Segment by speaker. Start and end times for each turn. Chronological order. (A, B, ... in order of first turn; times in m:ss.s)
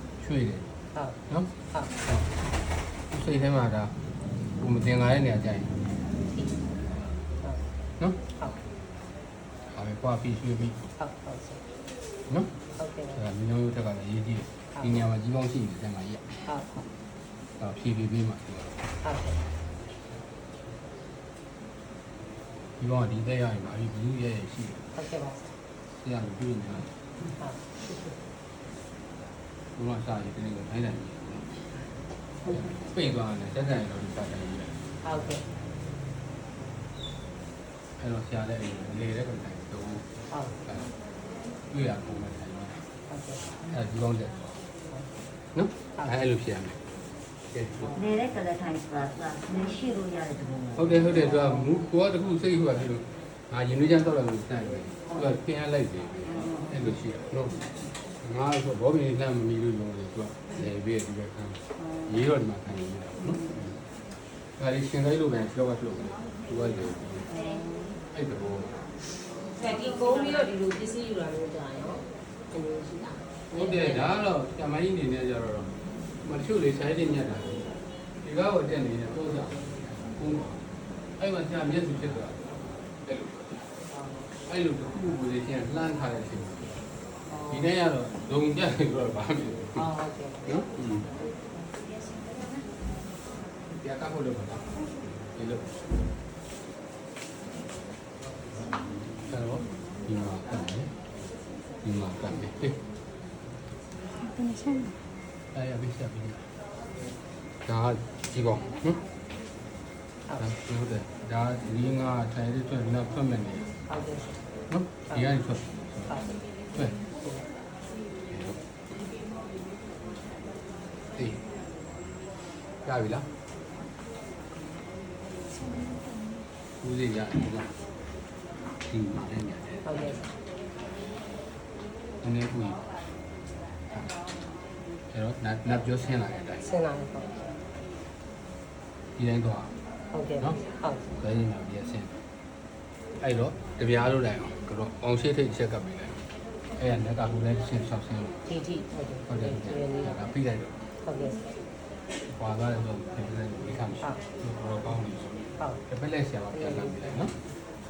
0:00.2-0:00.6 A
0:03.1-0:03.9 A
0:04.6-0:05.7 A
0:09.7-0:10.9 A
0:11.0-0:11.5 B
0:13.1-0:16.2 A
0:16.5-0:16.8 B
0:17.6-0:18.7 A
0:22.8-0:24.8 A
0:25.0-0:25.4 B
0:26.0-0:26.9 A
0:29.8-0:31.4 A
0:32.5-0:34.7 A
0:35.1-0:35.4 B
0:38.0-0:40.0 A
0:41.7-0:42.8 A
0:43.7-0:44.5 A
0:45.5-0:46.8 A
0:47.5-0:47.9 A
0:47.9-0:51.5 C
0:50.7-0:57.6 A
0:56.3-0:56.6 C
0:58.2-1:03.4 A
1:01.8-1:02.1 C
1:04.6-1:07.3 A
1:07.3-1:08.0 C
1:08.1-1:08.8 A
1:09.6-1:14.1 B
1:13.5-1:15.7 A
1:16.2-1:17.7 A
1:18.2-1:20.6 A
1:21.2-1:23.7 A
1:24.5-1:26.8 A
1:27.4-1:29.9 A
1:29.9-1:30.4 B
1:30.4-1:31.1 A
1:33.7-1:34.6 A
1:35.3-1:35.6 A
1:39.3-1:40.9 A
1:41.8-1:42.8 A
1:44.2-1:44.9 C
1:45.5-1:46.5 A
1:47.6-1:49.0 A
1:50.4-1:53.7 A
1:54.7-1:56.2 A
1:58.3-1:58.6 A
2:01.2-2:01.4 A
2:02.8-2:03.2 A
2:06.8-2:07.7 A
2:08.9-2:10.1 A
2:09.9-2:10.2 B
2:12.2-2:12.8 A
2:15.1-2:16.7 A
2:16.7-2:17.3 B
2:19.2-2:19.7 A
2:20.1-2:21.0 B
2:21.1-2:22.1 A
2:23.2-2:26.2 A
2:26.8-2:28.4 A
2:28.5-2:29.4 B
2:29.3-2:30.7 A
2:31.0-2:31.4 B
2:32.3-2:37.3 A